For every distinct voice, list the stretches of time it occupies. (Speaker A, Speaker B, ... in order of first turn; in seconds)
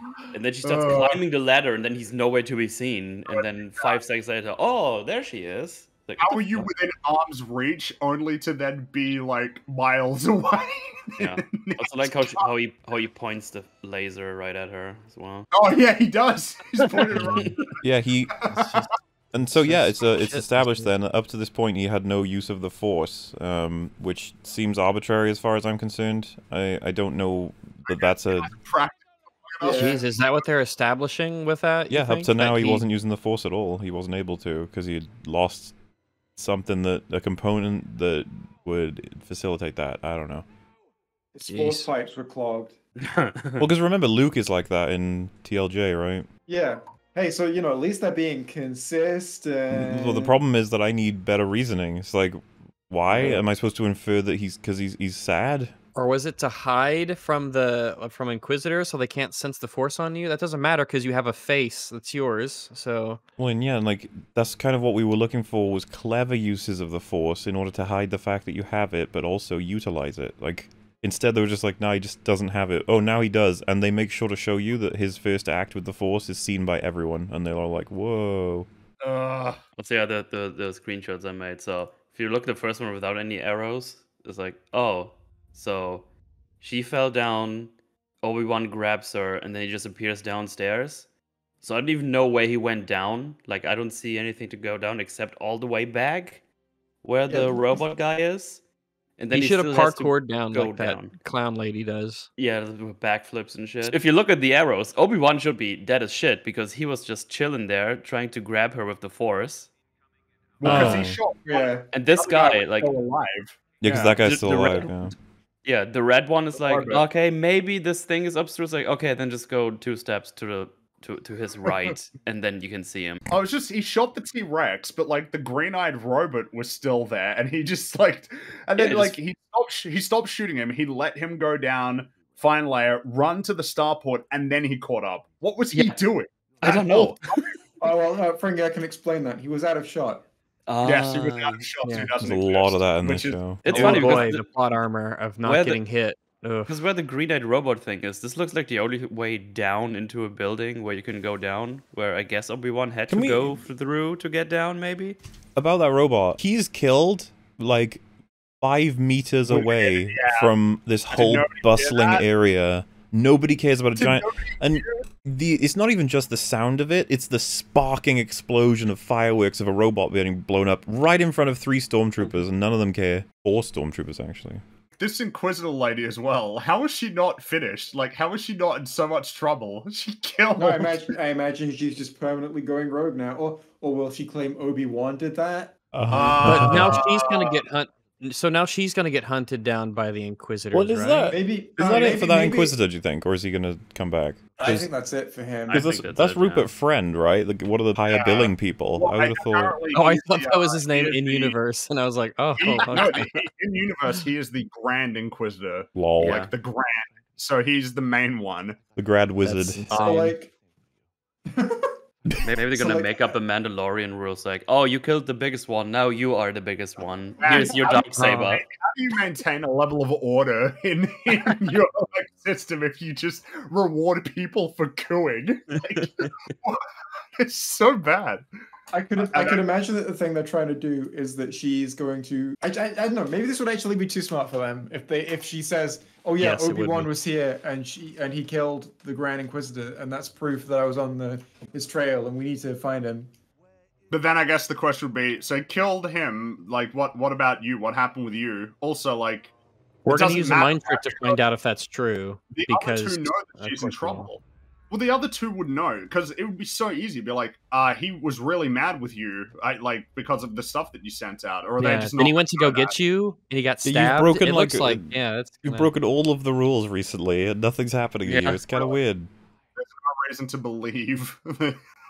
Speaker A: 0.3-6.7, 11.2-15.5, 17.0-17.6, 43.0-43.6, 79.8-86.1, 86.6-91.1, 91.6-96.4, 97.0-98.6, 99.2-101.1, 102.4-109.7, 111.9-113.0, 113.9-115.0, 115.7-123.2, 128.8-129.2, 136.6-137.2, 140.7-141.6, 143.6-144.5, 145.4-145.8, 146.7-155.2, 195.7-196.7, 206.2-206.5, 212.4-218.6, 225.9-226.3, 268.2-268.6
Speaker B: 0.6-1.2, 3.3-4.0, 6.2-12.5, 15.5-17.8, 18.4-18.6, 27.9-30.2, 79.0-79.6, 110.6-114.2, 116.5-117.1, 123.3-137.5, 140.8-143.4, 143.9-144.2, 159.5-160.5, 161.1-162.3, 164.0-165.0, 175.0-181.1, 186.1-187.6, 198.1-201.6, 202.6-208.8, 217.4-226.8, 227.4-228.4, 229.2-229.6, 244.1-249.5, 250.1-251.4, 252.5-262.9, 268.7-269.0, 269.8-271.8
Speaker C: 17.8-18.3, 19.3-28.5, 31.9-35.7, 36.4-40.5, 43.6-46.3, 49.7-55.7, 63.4-78.7, 110.7-111.2, 113.8-115.1, 142.2-144.2, 153.1-153.6, 155.6-158.0, 158.6-174.6, 185.9-187.0, 190.7-194.9, 195.7-199.8, 205.9-206.4, 208.9-210.1, 263.8-265.1, 265.6-269.3
Speaker D: 18.4-20.9, 29.7-32.9, 41.5-41.9, 56.0-63.2, 99.3-102.3, 110.6-111.2, 141.8-142.1, 143.7-146.8, 186.4-191.3, 199.9-203.3, 209.4-210.4, 236.4-237.1, 250.1-254.3, 261.8-265.9
Speaker E: 29.6-29.9, 41.4-42.8, 46.5-50.4, 97.3-97.8, 111.5-111.9, 137.8-140.2, 180.6-185.8, 191.3-192.8, 194.6-195.9, 209.9-210.5, 211.5-211.9, 212.7-213.4, 228.9-243.3